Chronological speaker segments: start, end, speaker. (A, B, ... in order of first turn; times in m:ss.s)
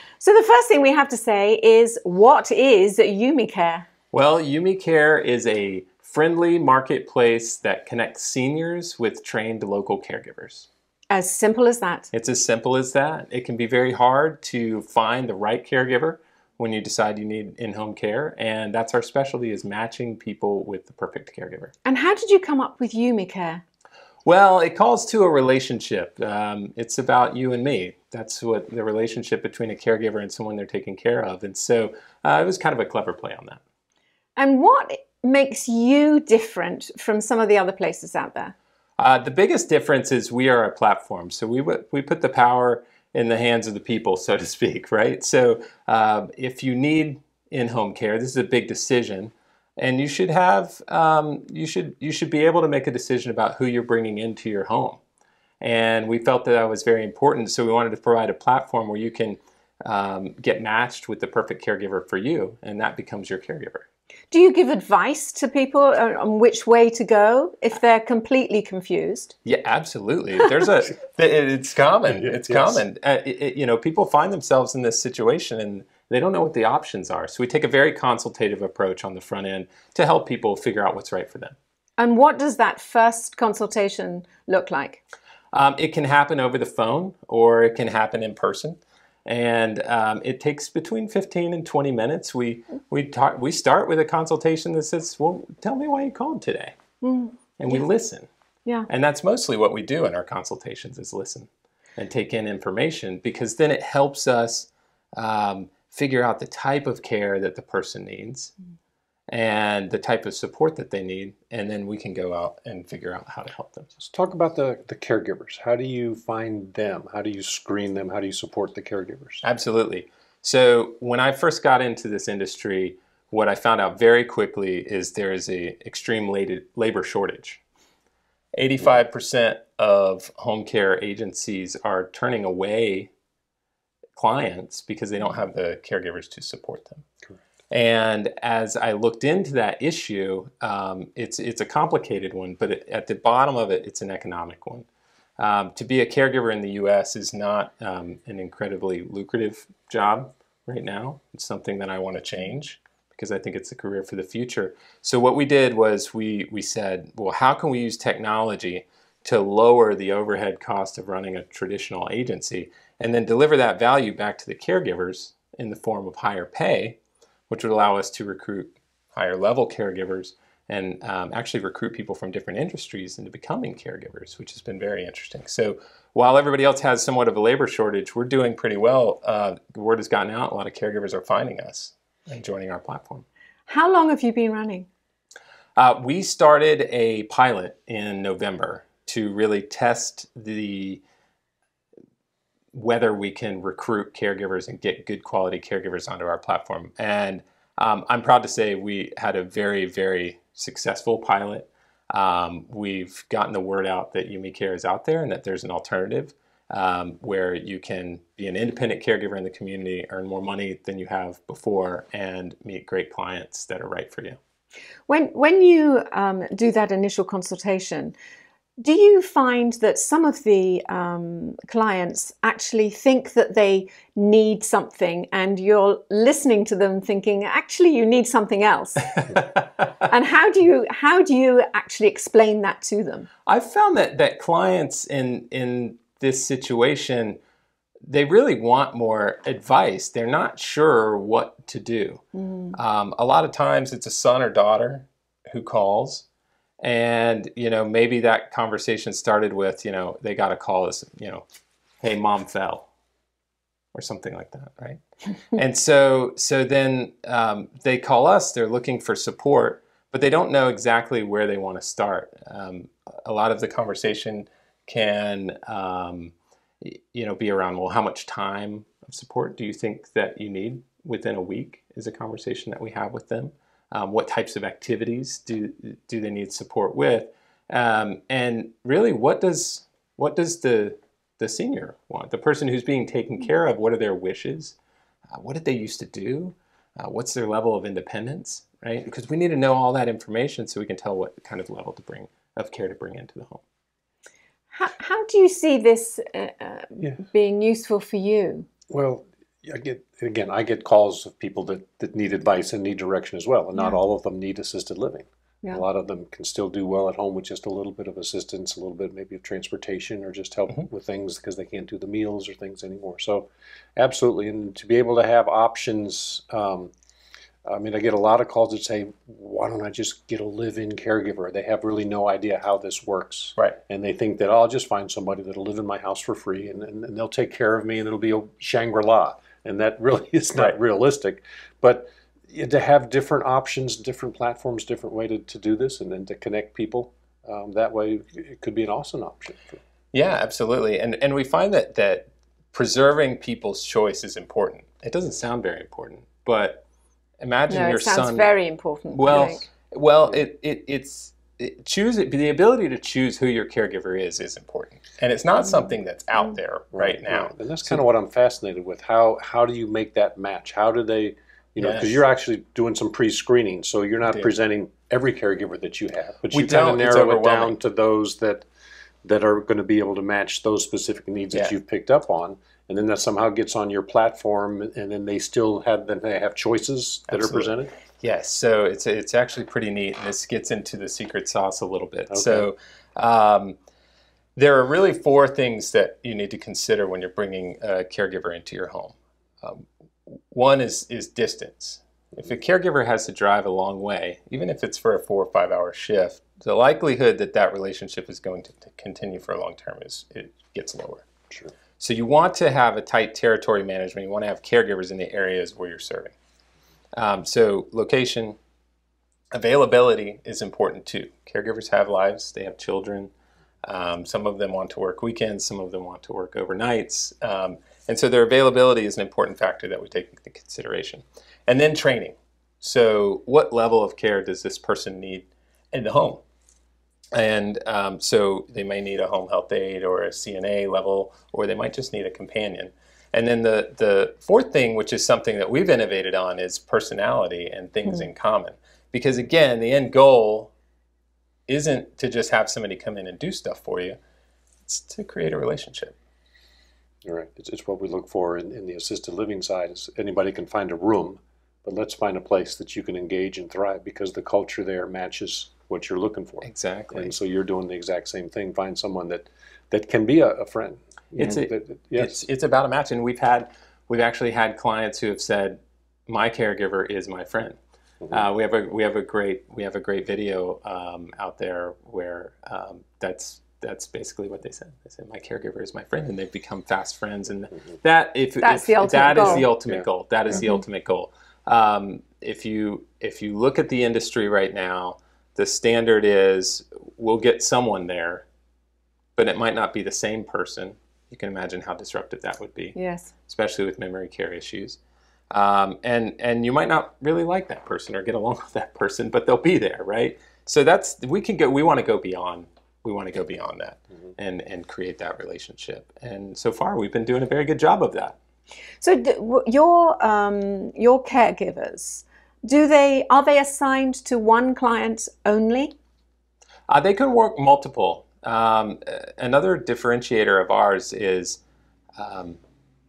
0:00.2-0:03.9 A
0:04.1-0:10.7 B
0:11.1-0:12.1 A
0:12.1-0:21.7 B
0:21.8-0:23.6 A
0:24.2-0:33.6 B
0:34.4-0:38.5 A
0:39.0-0:55.0 B
0:55.6-1:03.9 B
1:04.3-1:09.3 A
1:09.4-1:21.6 B
1:12.1-1:12.8 C
1:22.0-1:25.0 A
1:25.5-1:36.8 B
1:37.0-1:37.4 A
1:37.6-1:38.3 B
1:38.9-1:48.5 B
1:49.3-1:53.9 B
1:54.0-1:59.4 C
1:59.4-2:07.6 B
2:08.5-2:13.1 B
2:14.2-2:17.1 B
2:17.7-2:24.9 B
2:25.4-2:47.0 B
2:47.5-3:03.2 B
3:03.7-3:04.9 A
3:05.8-3:11.0 B
3:12.7-3:34.4 B
3:35.1-3:38.2 A
3:38.8-3:49.2 A
3:49.2-3:49.5 B
3:50.1-3:53.3 A
3:53.5-3:57.4 B
3:58.0-4:06.2 B
4:02.4-4:02.8 A
4:06.8-4:11.4 B
4:12.0-4:12.9 B
4:14.0-4:15.0 B
4:15.5-4:44.8 B
4:45.3-4:53.6 B
4:54.7-4:58.7 A
4:58.9-5:16.9 C
5:03.8-5:04.0 A
5:17.7-5:39.8 C
5:40.1-5:46.8 B
5:47.4-5:48.5 B
5:47.7-5:49.7 A
5:49.1-5:58.0 B
5:55.6-5:55.9 A
5:56.9-6:08.7 C
6:01.8-6:02.2 B
6:04.2-6:04.5 B
6:06.5-6:07.8 B
6:09.2-6:17.9 C
6:17.3-6:23.8 B
6:22.3-6:22.7 C
6:24.6-6:41.3 B
6:42.0-6:46.3 B
6:47.2-6:48.6 B
6:49.5-6:53.3 B
6:53.8-7:06.4 B
7:07.3-7:20.7 B
7:21.7-7:24.2 B
7:24.9-7:26.2 B
7:27.2-7:42.4 C
7:36.6-7:37.3 B
7:41.4-7:47.8 B
7:48.3-8:08.4 B
7:58.6-7:59.7 A
7:59.4-8:00.1 C
8:00.5-8:00.8 A
8:09.4-8:15.0 B
8:13.0-8:13.3 A
8:15.5-8:28.4 B
8:29.0-8:35.9 A
8:36.9-8:41.6 B
8:42.2-8:42.6 B